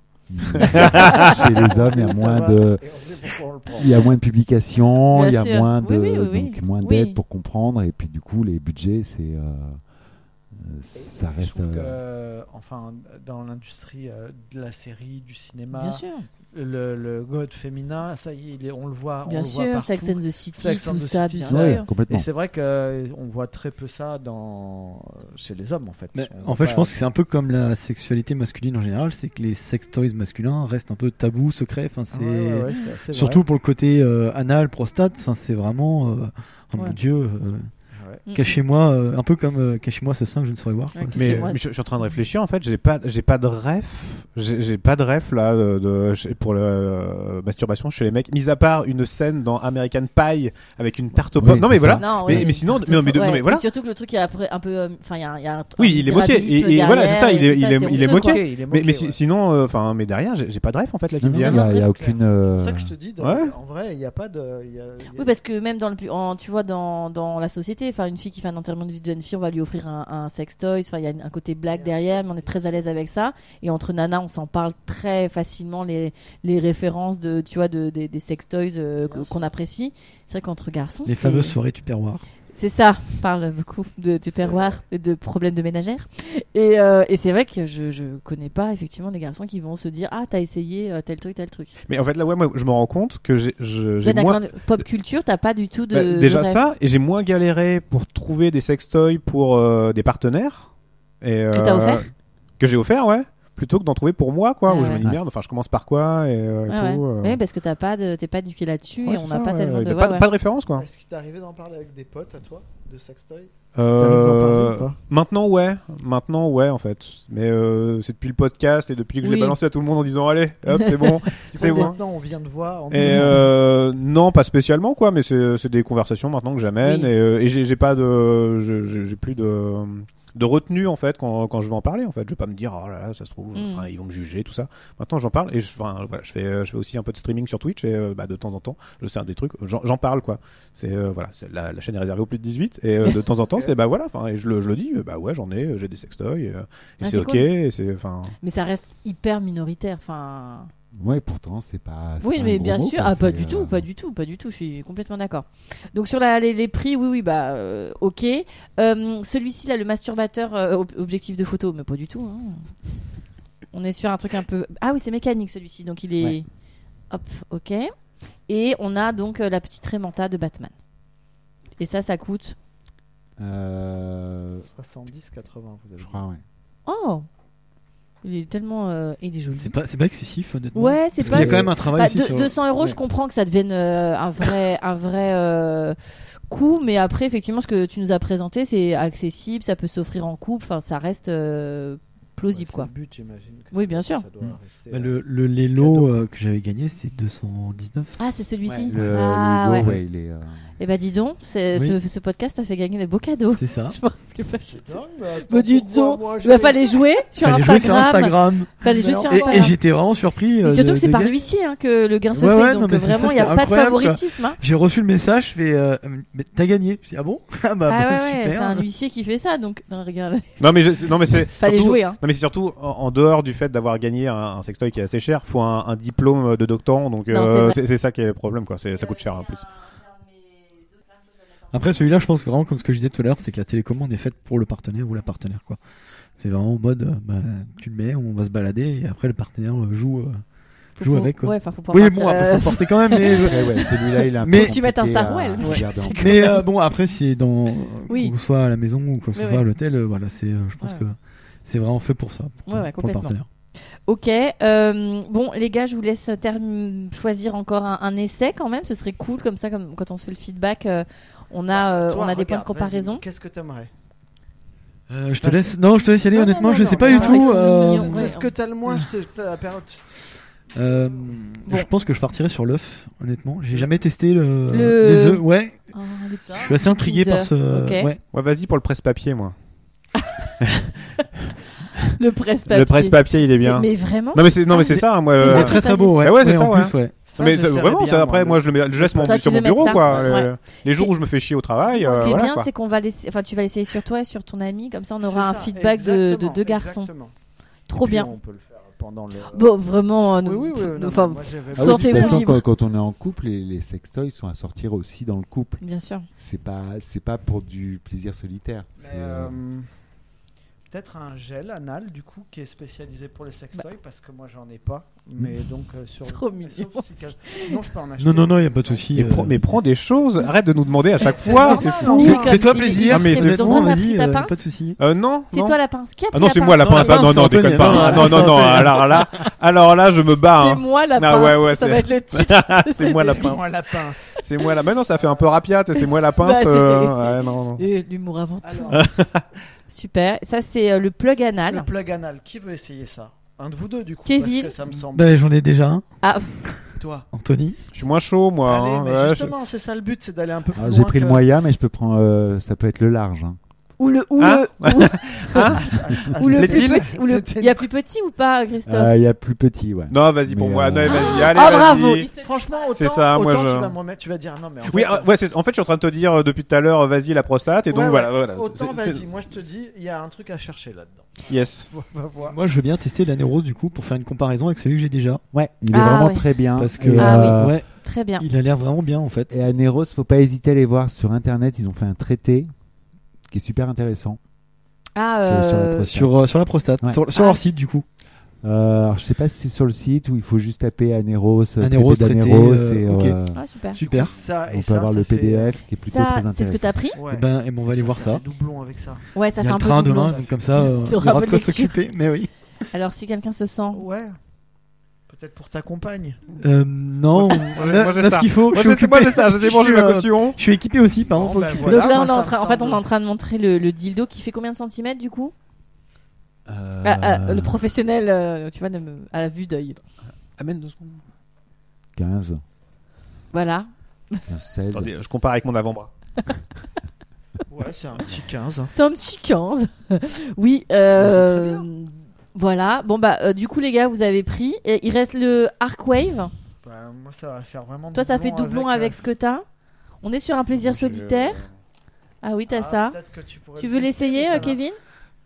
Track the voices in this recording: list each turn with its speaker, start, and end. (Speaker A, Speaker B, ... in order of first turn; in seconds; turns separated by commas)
Speaker A: 0.3-2.8, Speaker B: 0.6-2.1, Speaker C: 1.3-4.0, Speaker A: 3.7-9.8, Speaker B: 5.1-7.2, Speaker A: 10.6-12.0, Speaker C: 10.9-26.9, Speaker B: 15.7-16.3, Speaker B: 19.2-21.9, Speaker A: 21.5-22.3, Speaker D: 26.1-37.7, Speaker C: 32.1-33.5, Speaker C: 37.9-38.2, Speaker D: 38.3-41.5, Speaker B: 40.9-41.6, Speaker E: 41.2-53.6, Speaker A: 51.4-52.5, Speaker B: 52.0-58.4, Speaker E: 55.8-61.6, Speaker C: 57.9-59.2, Speaker A: 61.2-62.9, Speaker B: 61.3-61.9, Speaker C: 61.6-65.3, Speaker E: 63.2-63.5, Speaker B: 65.2-81.6, Speaker C: 71.7-72.9, Speaker C: 79.0-79.6, Speaker D: 81.1-82.3, Speaker B: 82.5-91.8, Speaker C: 84.3-84.8, Speaker E: 91.9-94.6, Speaker B: 94.0-96.6, Speaker E: 95.9-107.4, Speaker B: 101.5-102.0, Speaker B: 104.7-105.0, Speaker B: 106.7-110.3, Speaker E: 109.0-110.8, Speaker C: 110.8-115.0, Speaker E: 113.8-122.0, Speaker B: 119.2-119.6, Speaker B: 120.8-121.9, Speaker C: 121.5-123.5, Speaker E: 122.9-148.4, Speaker B: 126.8-127.1, Speaker B: 133.6-133.9, Speaker B: 147.0-147.5, Speaker B: 148.4-150.7, Speaker A: 150.9-153.9, Speaker B: 152.2-162.7, Speaker B: 163.7-166.5, Speaker B: 167.1-167.9, Speaker B: 168.5-170.7, Speaker B: 171.8-172.6, Speaker A: 173.4-174.7, Speaker C: 174.6-176.2, Speaker A: 176.0-176.4, Speaker B: 176.9-177.3, Speaker B: 178.2-179.8, Speaker D: 179.5-183.0, Speaker B: 180.7-186.0, Speaker A: 181.2-181.8, Speaker B: 186.5-192.9, Speaker C: 192.5-195.2, Speaker B: 193.7-194.2, Speaker D: 194.9-198.2, Speaker C: 195.8-196.2, Speaker B: 198.2-200.0, Speaker A: 198.8-200.7, Speaker B: 200.8-209.8, Speaker D: 203.6-204.0, Speaker C: 204.7-207.1, Speaker D: 207.4-211.5, Speaker C: 208.8-209.8, Speaker B: 210.6-214.6, Speaker D: 212.3-218.8, Speaker B: 217.9-220.6, Speaker E: 220.6-229.7, Speaker B: 221.6-222.2, Speaker B: 227.3-227.8, Speaker D: 231.7-235.8, Speaker D: 236.4-240.4, Speaker D: 241.0-243.7, Speaker B: 241.0-246.7, Speaker A: 243.3-246.6, Speaker D: 244.4-244.7, Speaker D: 245.6-253.5, Speaker B: 248.1-248.3, Speaker B: 249.3-249.6, Speaker B: 250.8-251.0, Speaker B: 252.7-263.2, Speaker C: 261.7-263.9, Speaker D: 265.1-269.1, Speaker C: 265.4-265.8, Speaker B: 266.3-268.5, Speaker C: 266.6-270.0, Speaker D: 270.8-275.8, Speaker C: 270.8-271.3, Speaker B: 274.7-278.1, Speaker D: 276.5-278.2, Speaker E: 278.3-279.6, Speaker E: 280.6-280.9, Speaker B: 282.1-286.2, Speaker E: 282.7-292.7, Speaker D: 285.4-287.2, Speaker C: 287.2-289.4, Speaker B: 289.2-291.1, Speaker C: 290.1-290.4, Speaker B: 291.9-297.1, Speaker C: 292.1-292.4, Speaker C: 295.2-297.3, Speaker B: 297.9-298.3, Speaker C: 297.9-299.7, Speaker B: 299.5-302.6, Speaker C: 300.4-302.5, Speaker A: 301.8-305.8, Speaker B: 305.8-306.3, Speaker A: 306.4-309.6, Speaker C: 309.0-309.9, Speaker C: 310.9-319.2, Speaker B: 316.2-317.8, Speaker D: 318.2-319.8, Speaker E: 319.1-322.5, Speaker C: 321.2-322.9, Speaker B: 321.2-324.6, Speaker D: 321.6-325.0, Speaker E: 323.0-323.9, Speaker E: 325.0-325.8, Speaker B: 325.5-328.8, Speaker E: 326.3-337.8, Speaker D: 326.9-329.3, Speaker B: 330.6-333.6, Speaker C: 333.1-334.2, Speaker C: 335.1-335.5, Speaker B: 336.4-339.1, Speaker C: 338.6-339.2, Speaker E: 338.9-339.4, Speaker B: 339.9-341.9, Speaker C: 341.7-345.4, Speaker B: 344.3-344.7, Speaker D: 345.1-346.1, Speaker B: 346.2-346.6, Speaker C: 347.0-347.3, Speaker D: 347.3-347.8, Speaker E: 347.9-349.6, Speaker C: 348.7-351.4, Speaker A: 350.7-353.6, Speaker B: 354.0-355.8, Speaker E: 354.4-355.8, Speaker C: 355.7-357.9, Speaker B: 356.4-359.1, Speaker E: 356.4-357.1, Speaker A: 358.9-361.3, Speaker E: 360.1-362.3, Speaker B: 361.1-362.4, Speaker C: 361.4-365.3, Speaker E: 362.9-364.0, Speaker E: 364.9-369.2, Speaker C: 367.9-372.6, Speaker E: 371.5-371.9, Speaker D: 372.4-375.4, Speaker A: 375.5-377.8, Speaker B: 375.9-376.6, Speaker D: 376.8-377.9, Speaker B: 377.2-378.5, Speaker D: 378.4-379.5, Speaker A: 379.5-382.7, Speaker A: 383.5-384.4, Speaker B: 385.1-386.2, Speaker A: 385.4-386.4, Speaker D: 386.1-388.1, Speaker B: 387.3-387.6, Speaker A: 388.6-397.0, Speaker D: 391.8-393.4, Speaker B: 393.5-394.0, Speaker D: 393.9-394.3, Speaker C: 394.0-395.8, Speaker B: 395.9-397.2, Speaker C: 397.1-399.3, Speaker D: 397.3-398.4, Speaker B: 399.3-402.0, Speaker D: 399.6-402.5, Speaker C: 400.2-400.9, Speaker B: 402.9-404.0, Speaker C: 403.9-404.4, Speaker C: 405.3-406.4, Speaker D: 406.6-412.2, Speaker E: 407.3-410.6, Speaker C: 411.3-413.0, Speaker B: 411.8-415.5, Speaker A: 416.7-417.8, Speaker B: 417.0-420.0, Speaker E: 420.6-421.2, Speaker A: 422.1-422.6, Speaker B: 423.5-424.4, Speaker A: 424.5-425.1, Speaker E: 424.9-426.1, Speaker C: 427.7-428.9, Speaker B: 428.9-436.5, Speaker C: 431.2-431.9, Speaker C: 436.8-439.2, Speaker B: 438.1-439.6, Speaker B: 440.2-441.6, Speaker E: 440.8-441.7, Speaker B: 442.4-443.2, Speaker C: 442.7-444.8, Speaker B: 443.8-445.0